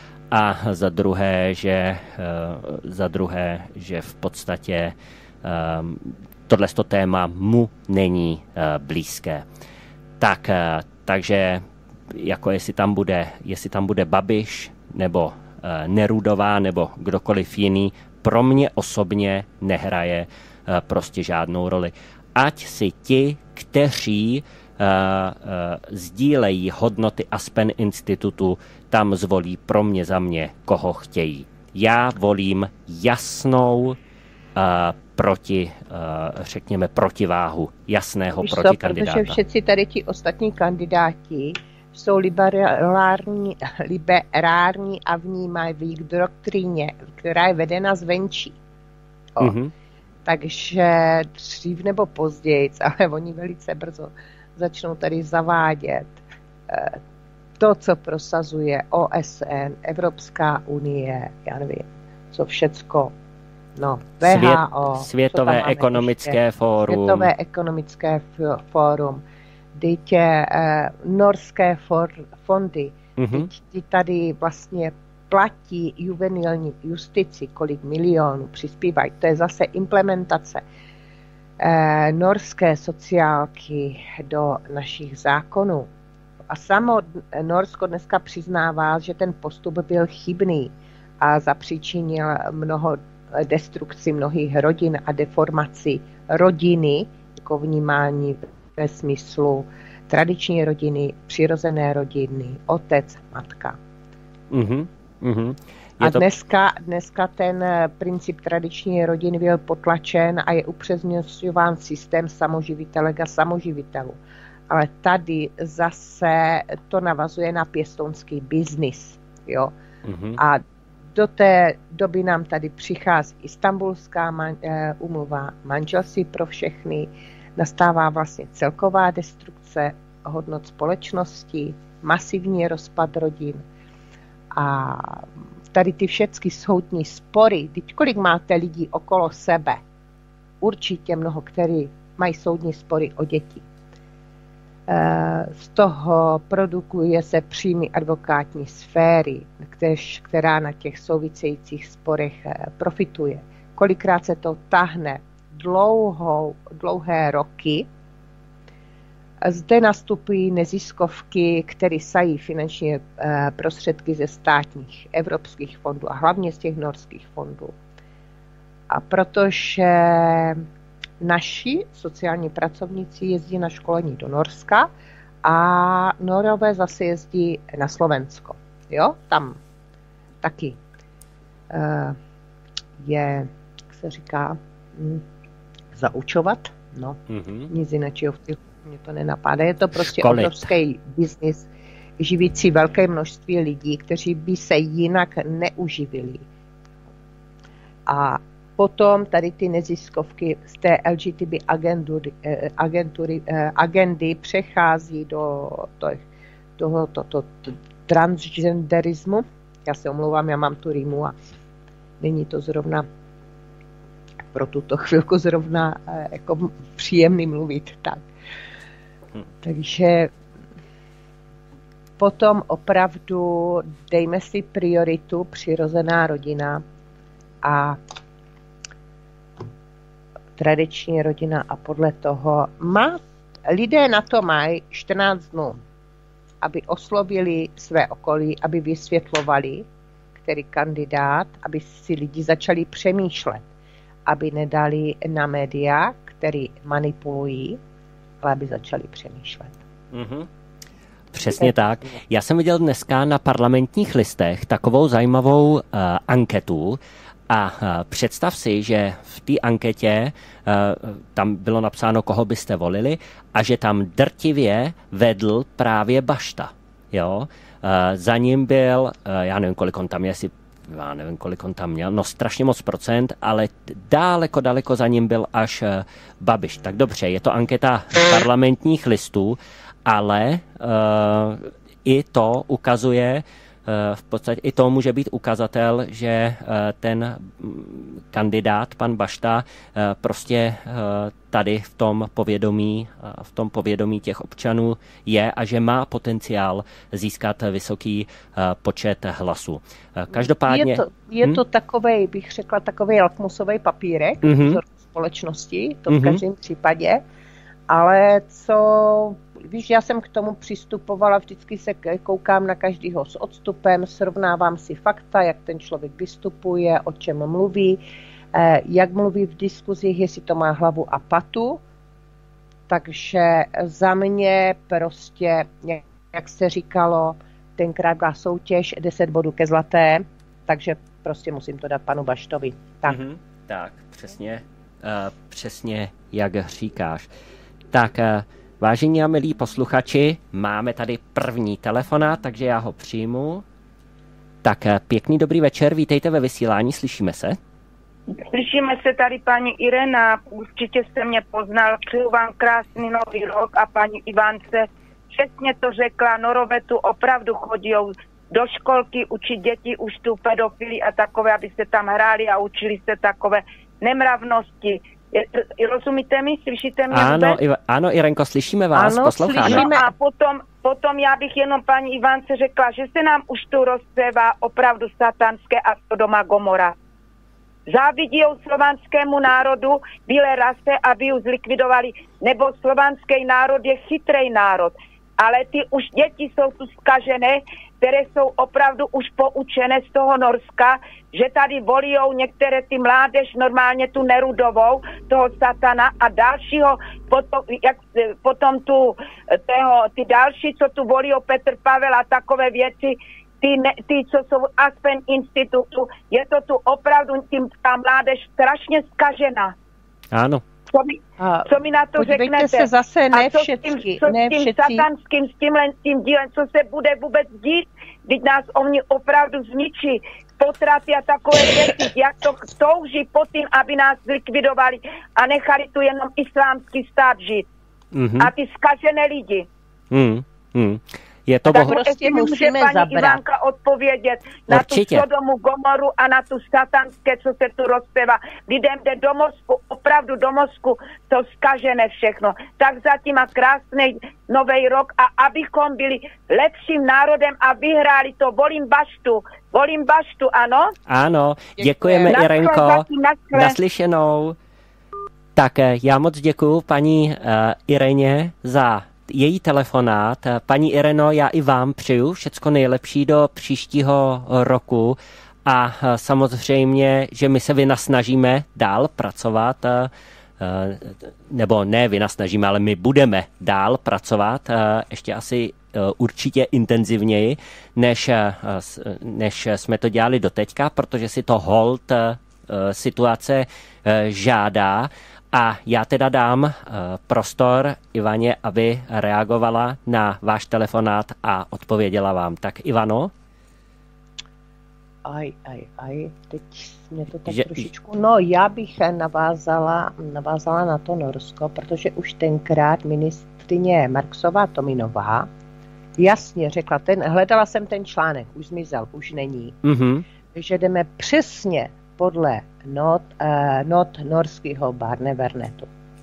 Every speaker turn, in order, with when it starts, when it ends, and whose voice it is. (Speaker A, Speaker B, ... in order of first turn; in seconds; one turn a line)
Speaker A: 0.3-9.4
Speaker A: 10.2-34.0
Speaker A: 34.5-39.4
Speaker B: 38.4-48.6
Speaker A: 49.4-49.7
Speaker B: 50.2-57.0
Speaker B: 57.6-63.1
Speaker B: 63.8-69.2
Speaker A: 64.2-67.3
Speaker B: 69.7-80.6
Speaker A: 73.2-73.5
Speaker B: 81.6-85.9
Speaker B: 86.5-103.8
Speaker A: 104.5-106.2
Speaker B: 106.0-119.7
Speaker A: 120.0-120.4
Speaker B: 120.4-120.6
Speaker B: 121.1-133.6
Speaker B: 134.5-139.8
Speaker B: 140.6-143.7
Speaker B: 144.9-157.9
Speaker B: 159.4-167.8
Speaker B: 168.9-170.7
Speaker B: 171.2-174.9
Speaker B: 175.4-179.6
Speaker B: 180.4-180.8
Speaker B: 181.7-182.2
Speaker B: 183.0-185.2
Speaker B: 185.9-191.7
Speaker A: 187.3-187.7
Speaker A: 189.9-190.7
Speaker B: 192.2-196.4
Speaker B: 198.1-206.2
Speaker B: 206.8-211.3
Speaker B: 212.2-213.1
Speaker B: 214.5-218.3
Speaker B: 219.6-220.3
Speaker B: 222.2-226.8
Speaker B: 227.6-228.0
Speaker B: 230.6-235.8
Speaker B: 236.6-239.8
Speaker B: 240.4-243.6
Speaker B: 244.2-247.8
Speaker B: 248.4-249.8
Speaker A: 250.1-250.5
Speaker A: 251.3-301.6
Speaker B: 300.3-307.2
Speaker A: 304.4-304.8
Speaker A: 306.1-306.4
Speaker B: 307.9-318.0
Speaker B: 318.5-321.8
Speaker B: 322.9-333.2
Speaker A: 333.1-337.3
Speaker A: 337.9-343.6
Speaker A: 344.6-347.6
Speaker C: 348.4-367.6
Speaker A: 367.1-369.8
Speaker B: 368.9-370.1
Speaker C: 369.6-376.9
Speaker C: 377.9-409.7
Speaker A: 410.3-410.6
Speaker C: 410.9-427.7
Speaker B: 411.4-415.1
Speaker A: 428.1-428.5
Speaker C: 428.4-429.7
Speaker A: 430.1-431.9
Speaker C: 431.7-450.9
Speaker B: 431.7-433.4
Speaker A: 434.7-435.2
Speaker A: 451.1-454.6
Speaker B: 451.8-452.4
Speaker C: 452.3-453.8
Speaker A: 455.5-493.3
Speaker B: 495.2-505.5
Speaker A: 497.5-497.7
Speaker B: 506.2-509.8
Speaker A: 509.8-510.2
Speaker B: 510.5-515.9